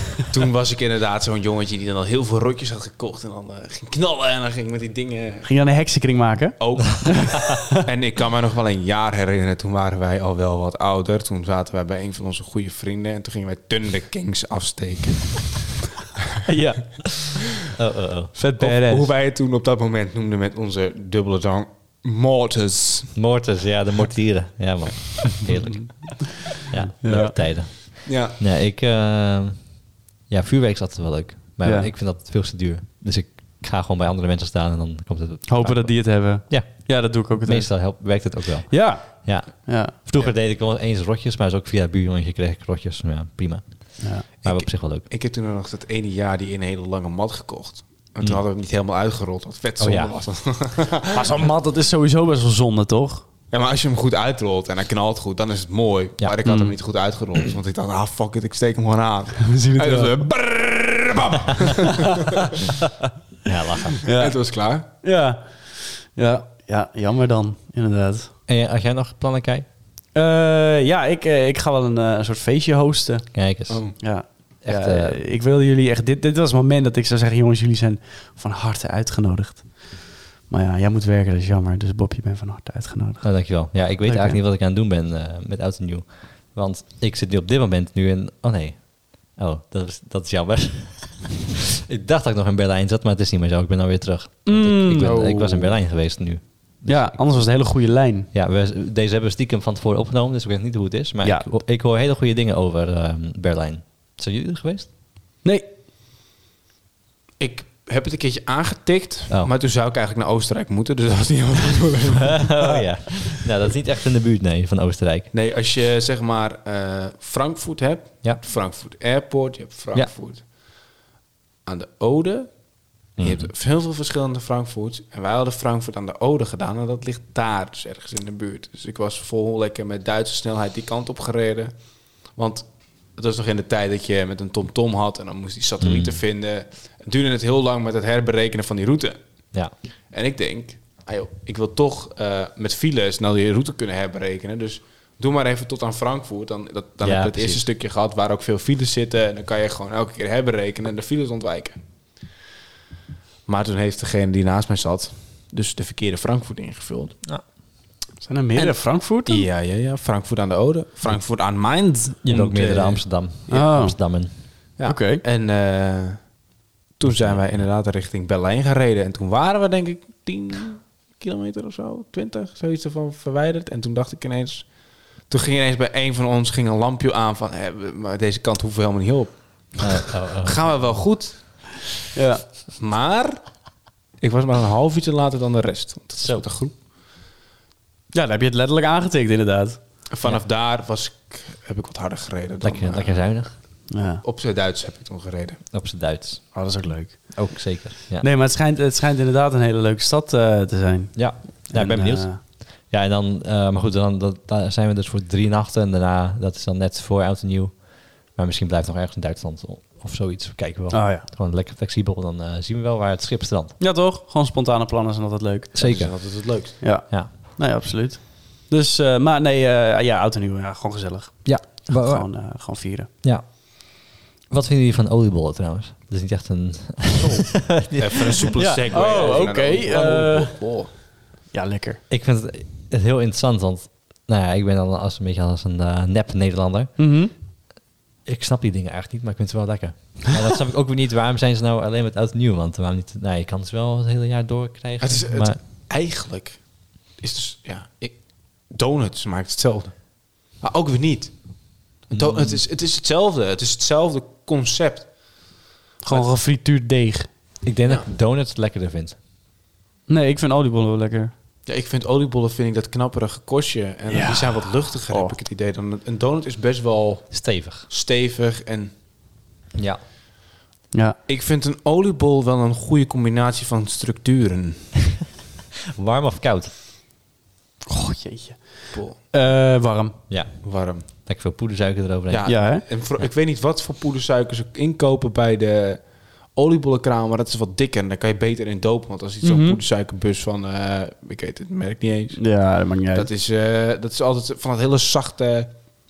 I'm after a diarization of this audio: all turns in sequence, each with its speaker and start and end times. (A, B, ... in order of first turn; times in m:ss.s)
0:00.3-0:05.5 A
0:05.4-0:07.6 B
0:06.6-0:15.6 A
0:16.4-0:16.8 B
0:17.6-0:18.3 C
0:18.4-0:19.1 B
0:18.6-0:23.1 A
0:23.2-0:45.1 C
0:25.4-0:25.9 A
0:27.0-0:27.4 B
0:28.0-0:28.4 A
0:31.6-0:31.9 B
0:35.5-0:39.9 B
0:44.4-0:51.3 A
0:49.8-0:50.2 C
0:51.1-0:53.3 B
0:53.5-1:02.6 A
0:56.4-0:56.8 B
0:59.4-1:00.2 B
1:03.4-1:04.0 C
1:04.0-1:08.3 B
1:04.2-1:04.9 A
1:08.5-1:09.7 C
1:10.1-1:24.4 B
1:13.3-1:15.2 C
1:13.7-1:14.0 A
1:23.2-1:37.1 C
1:34.4-1:35.7 B
1:35.0-1:35.4 A
1:36.8-1:38.3 B
1:38.3-1:44.9 C
1:47.4-1:52.8 A
1:52.2-1:55.3 C
1:55.3-2:00.7 A
2:01.6-2:19.2 A
2:03.2-2:03.5 C
2:15.8-2:16.2 C
2:20.1-2:31.8 A
2:27.0-2:27.6 C
2:33.5-2:37.2 A
2:38.2-2:39.5 B
2:38.6-2:43.6 A
2:42.2-2:44.3 C
2:43.5-2:44.0 B
2:44.8-2:46.4 A
2:44.8-2:45.2 B
2:47.0-3:01.8 A
2:47.0-2:47.4 C
2:59.8-3:00.7 C
3:02.1-3:02.4 B
3:02.8-3:03.6 A
3:04.2-3:06.7 A
3:08.1-3:09.8 B
3:10.1-3:13.4 A
3:12.6-3:13.6 C
3:13.9-3:14.2 B
3:14.2-3:15.6 A
3:15.7-3:16.7 C
3:16.5-3:22.4 B
3:17.3-3:18.3 C
3:21.2-3:33.8 C
3:30.9-3:31.3 B
3:33.8-3:35.7 B
3:35.7-3:37.3 C
3:35.8-3:36.8 A
3:36.8-3:43.1 B
3:41.4-3:42.3 C
3:43.2-3:48.5 C
3:47.2-3:50.9 A
3:48.6-3:50.6 B
3:51.5-3:52.0 B
3:52.1-3:57.0 C
3:57.0-3:57.3 B
3:58.2-4:05.6 C
4:05.0-4:15.6 A
4:12.1-4:12.6 C
4:16.0-4:17.3 B
4:17.6-4:19.2 C
4:20.1-4:21.3 B
4:21.7-4:28.9 A
4:24.1-4:25.4 B
4:27.3-4:27.9 C
4:29.8-4:30.0 C
4:30.9-4:31.2 B
4:31.3-4:34.9 A
4:36.0-4:36.7 C
4:37.9-4:40.2 B
4:38.9-4:39.2 A
4:40.3-4:43.3 C
4:40.6-4:41.1 A
4:42.3-4:55.7 A
4:42.5-4:42.8 B
4:49.4-4:49.8 B
4:52.4-4:53.3 B